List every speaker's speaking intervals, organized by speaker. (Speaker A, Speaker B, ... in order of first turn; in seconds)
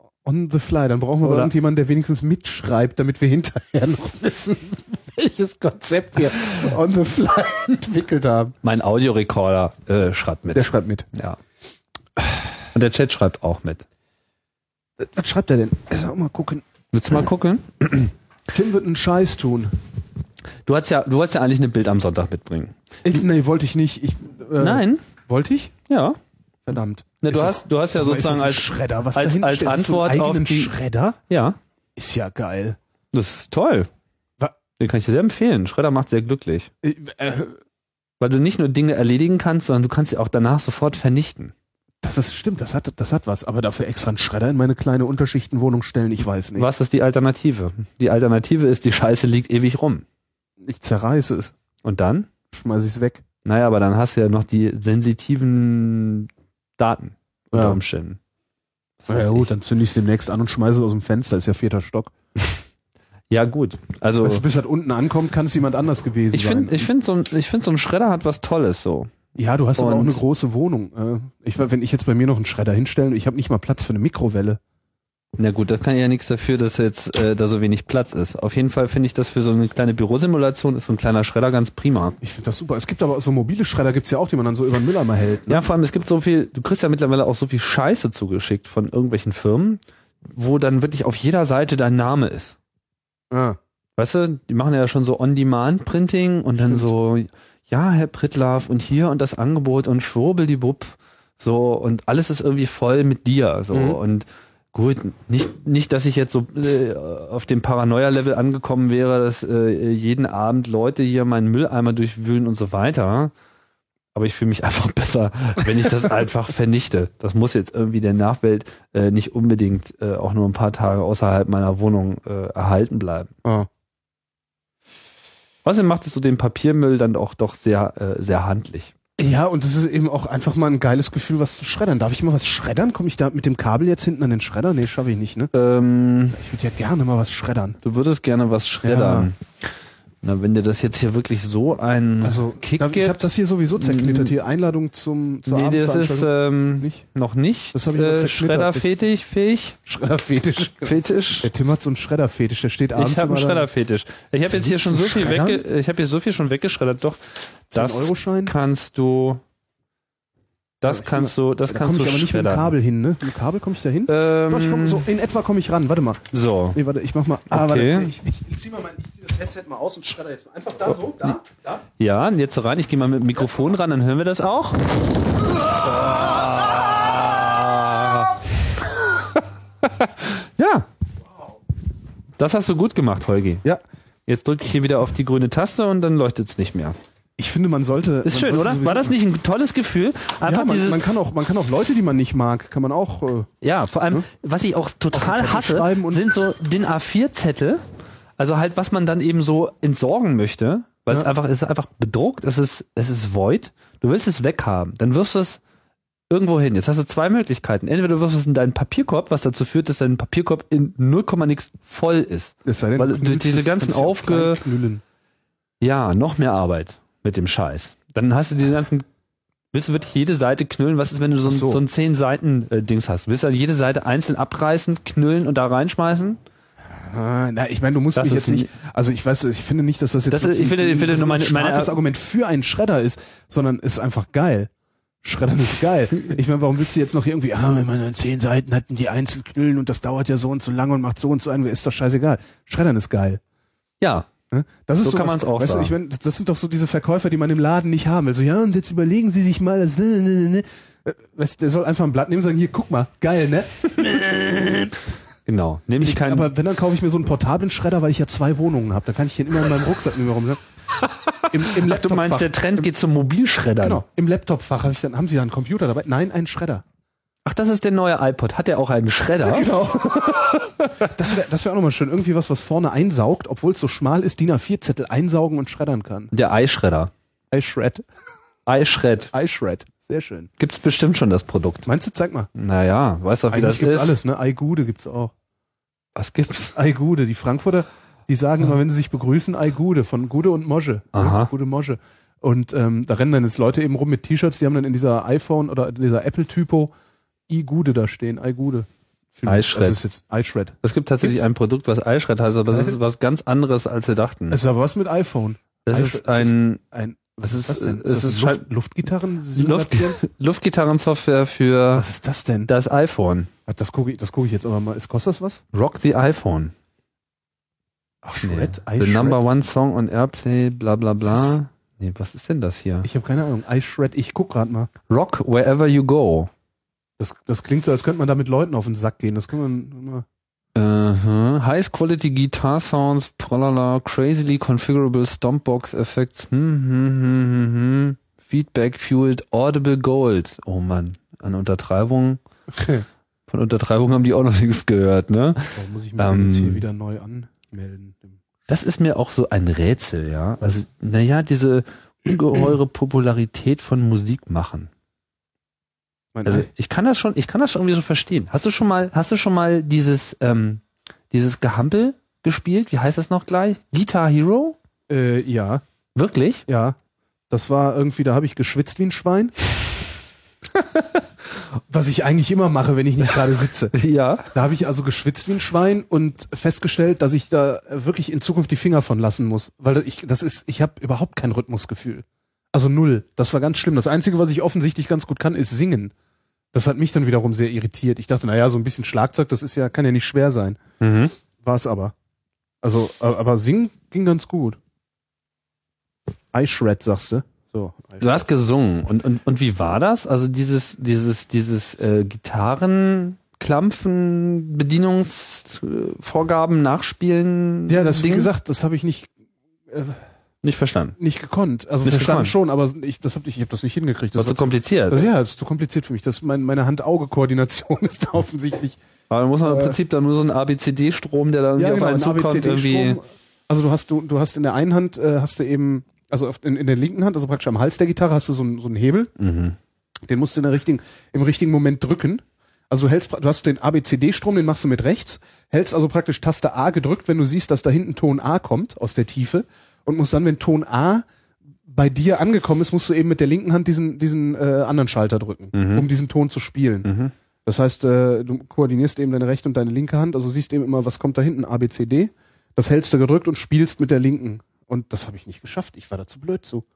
Speaker A: 0.2-8.6, 10.5-11.1, 15.0-16.6, 18.5-19.7, 23.0-25.7, 26.6-31.2, 31.9-32.8, 36.8-37.6, 42.0-46.7, 50.6-51.5, 52.5-53.2, 57.5-57.8, 59.1-62.1, 64.2-66.9, 69.3-74.6, 82.2-85.7, 93.3-93.6, 96.6-96.9, 103.7-104.0, 123.4-123.7, 129.2-135.5, 136.3-137.8, 138.8-139.3, 142.2-147.0, 147.7-148.9, 149.8-153.7, 154.5-155.6, 157.7-158.5, 160.8-171.8, 187.4-189.1, 190.4-193.5, 195.1-196.2, 212.6-215.0, 221.4-221.8, 226.9-234.7, 235.2-243.4, 244.5-255.0, 256.0-260.6, 261.5-262.9, 263.8-266.8, 269.4-276.3, 277.5-278.0, 279.3-280.5, 281.9-282.5, 283.5-285.3, 286.7-296.9, 297.5-301.4, 302.7-303.0, 304.5-310.2, 311.9-312.7, 313.7-315.6, 318.2-319.4, 323.0-324.9, 327.2-330.2, 342.8-343.0, 345.8-348.4, 356.3-356.7, 365.1-365.8, 366.7-367.0, 367.5-369.5, 371.9-373.9, 374.5-386.1, 386.7-390.8, 391.6-392.1, 392.8-394.8, 396.5-398.4, 407.9-409.3, 409.9-410.2, 411.2-419.0, 419.6-420.0, 421.8-429.3, 430.2-441.2, 441.9-447.1, 447.6-456.8
Speaker B: 1.2-1.5, 8.6-11.4, 12.6-13.8, 16.9-18.1, 20.6-22.7, 24.6-25.0, 25.9-26.2, 27.2-30.7, 31.3-31.6, 33.1-33.9, 34.8-36.7, 38.2-41.5, 46.5-50.0, 51.8-52.3, 53.4-58.2, 59.0-59.5, 63.3-64.4, 66.3-69.2, 69.8-70.2, 75.4-82.2, 85.5-89.8, 90.3-92.6, 94.0-113.3, 114.1-123.3, 125.6-128.9, 135.5-136.4, 137.8-139.4, 140.2-144.3, 145.4-149.8, 150.8-151.5, 152.9-159.4, 160.8-162.7, 164.1-165.1, 166.3-166.8, 167.5-168.1, 172.0-175.0, 176.0-178.4, 179.8-180.9, 182.4-183.6, 184.3-186.9, 188.2-191.1, 193.6-197.8, 198.4-205.6, 206.3-214.6, 215.8-219.1, 219.7-226.4, 228.1-228.7, 230.3-232.0, 244.0-244.3, 245.0-245.9, 255.4-256.5, 261.1-264.0, 267.4-271.1, 276.3-277.1, 278.7-279.3, 280.6-281.9, 282.5-284.2, 286.1-286.8, 291.1-291.5, 299.4-300.0, 300.8-304.6, 305.9-306.8, 307.4-308.6, 309.5-312.1, 312.7-313.5, 315.7-316.7, 318.4-323.1, 325.1-326.5, 330.7-342.4, 343.5-346.8, 348.7-354.9, 356.4-364.8, 366.1-366.6, 370.7-371.2, 373.9-374.5, 391.0-391.3, 398.2-408.5, 410.6-411.1, 412.0-412.5, 414.3-415.3, 419.3-423.2, 429.4-429.8, 445.7-446.1, 447.0-447.3